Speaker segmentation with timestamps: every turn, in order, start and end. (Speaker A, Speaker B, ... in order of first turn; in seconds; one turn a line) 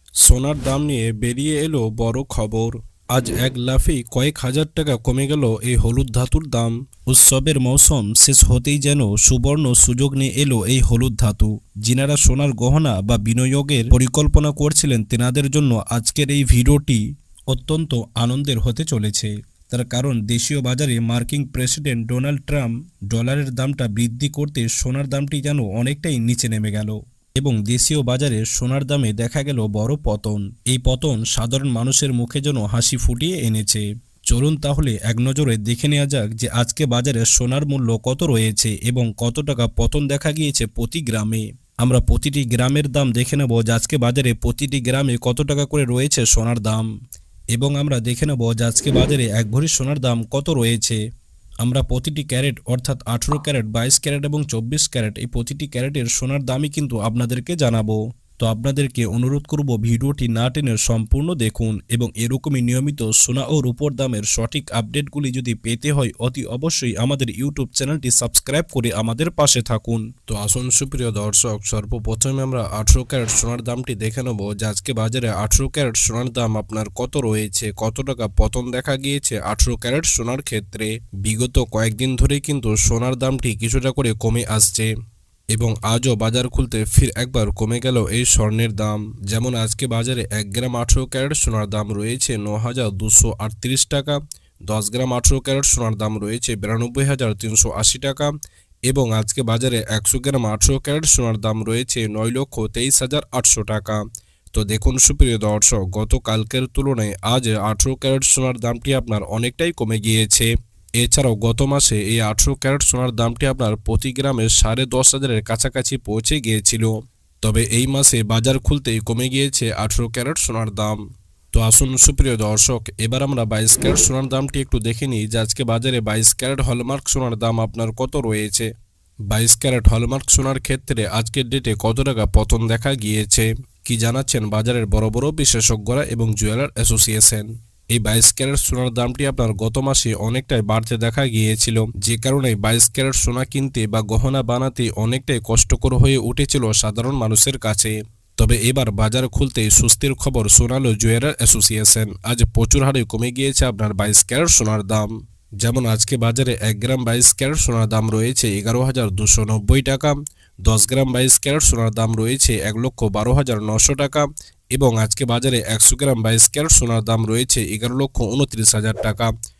Speaker A: 0.2-46.9
Speaker A: 47.5-51.0
Speaker A: 51.6-84.9
Speaker A: 85.5-94.2
Speaker A: 94.7-98.3
Speaker A: 98.9-104.0
Speaker A: 104.5-110.5
Speaker A: 111.0-116.9
Speaker A: 117.4-121.0
Speaker A: 121.5-128.7
Speaker A: 129.3-155.1
Speaker A: 155.6-169.3